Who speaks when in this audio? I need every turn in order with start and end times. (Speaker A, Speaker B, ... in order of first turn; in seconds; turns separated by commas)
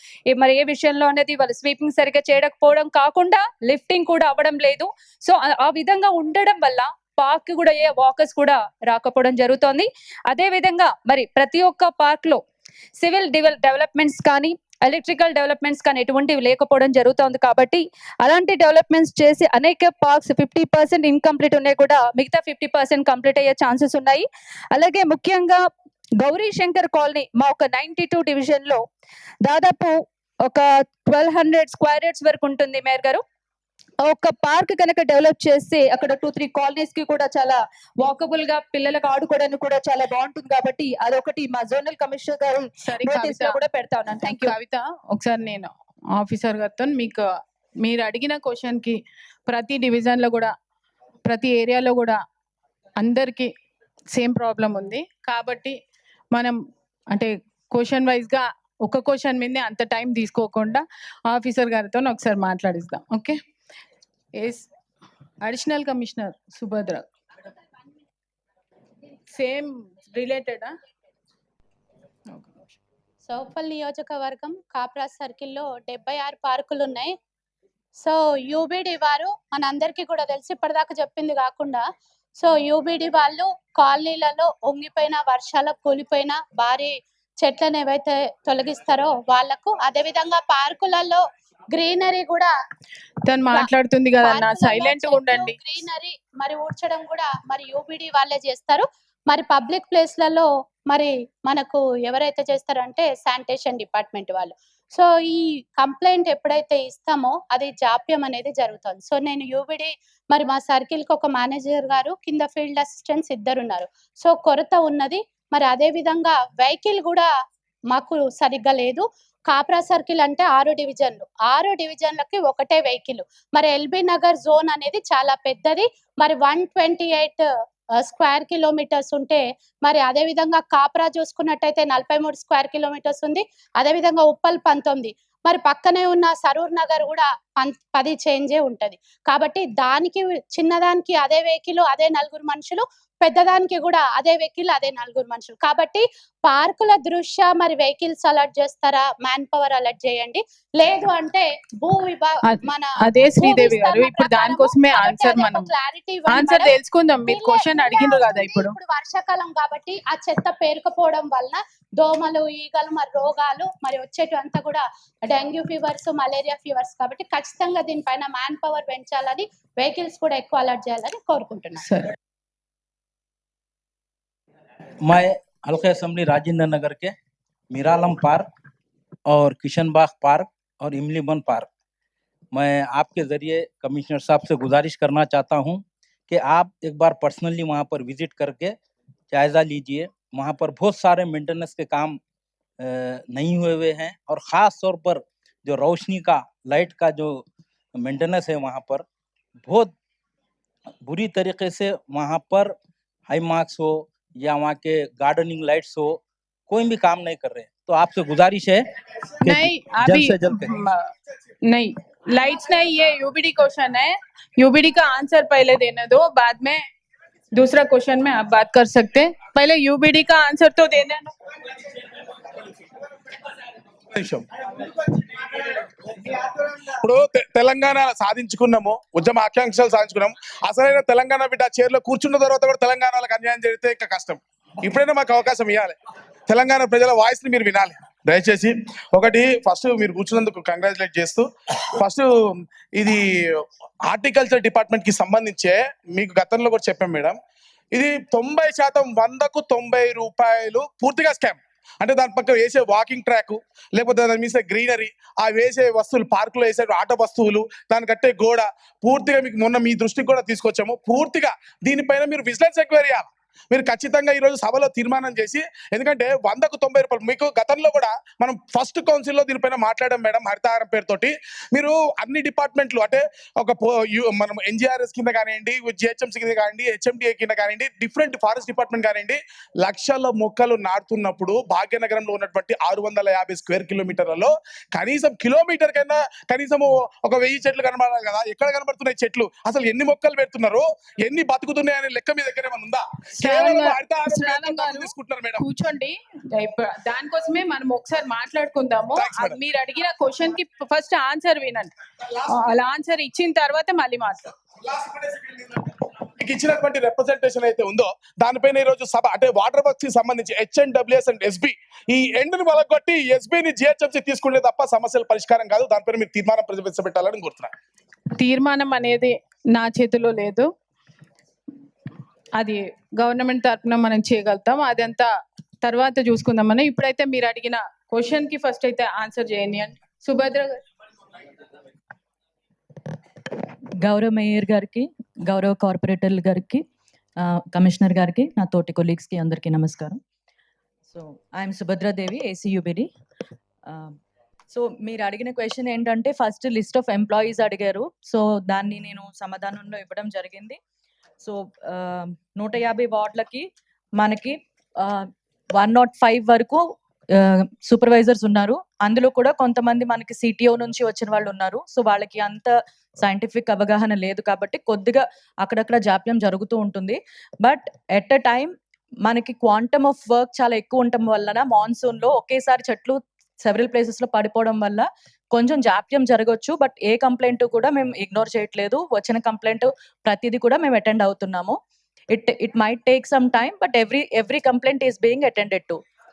Speaker A: 0.3-12.4, Speaker A: 13.0-25.6, Speaker A: 26.2-28.8, Speaker A: 29.4-33.2, Speaker A: 34.0-44.5, Speaker B: 42.8-43.6, Speaker B: 44.2-47.2, Speaker B: 47.8-50.5, Speaker B: 51.3-52.2, Speaker B: 53.0-53.5, Speaker B: 54.1-55.8, Speaker B: 56.3-56.6, Speaker B: 57.1-63.4, Speaker B: 64.4-64.7, Speaker B: 65.4-67.1, Speaker B: 69.3-70.7, Speaker C: 73.3-77.1, Speaker C: 78.0-81.8, Speaker C: 82.4-92.5, Speaker B: 93.3-95.6, Speaker C: 93.5-117.3, Speaker C: 117.9-127.4, Speaker C: 128.0-156.8, Speaker B: 152.4-155.7, Speaker B: 156.3-158.8, Speaker C: 157.3-171.8, Speaker B: 171.8-172.1, Speaker D: 175.0-177.1, Speaker D: 177.7-178.5, Speaker D: 179.3-181.7, Speaker D: 182.5-188.8, Speaker D: 189.3-192.2, Speaker D: 192.8-197.4, Speaker D: 197.9-199.0, Speaker D: 199.6-199.9, Speaker D: 201.0-202.7, Speaker D: 203.3-208.8, Speaker D: 209.4-210.7, Speaker B: 209.5-211.1, Speaker B: 211.7-216.8, Speaker B: 217.5-221.3, Speaker E: 224.1-224.5, Speaker E: 226.4-236.0, Speaker E: 236.5-242.3, Speaker E: 243.0-247.4, Speaker E: 247.9-295.6, Speaker B: 293.4-301.9, Speaker E: 299.1-299.6, Speaker B: 302.4-304.5, Speaker E: 304.9-305.7, Speaker E: 306.4-317.7, Speaker B: 318.4-320.7, Speaker B: 322.6-325.3, Speaker B: 325.8-330.8, Speaker F: 334.0-336.8, Speaker F: 337.4-340.2, Speaker F: 341.1-343.1, Speaker F: 343.9-344.1, Speaker F: 344.7-350.8, Speaker F: 351.4-353.7, Speaker F: 354.2-356.8, Speaker F: 357.3-368.7, Speaker F: 369.2-381.8, Speaker F: 382.3-386.0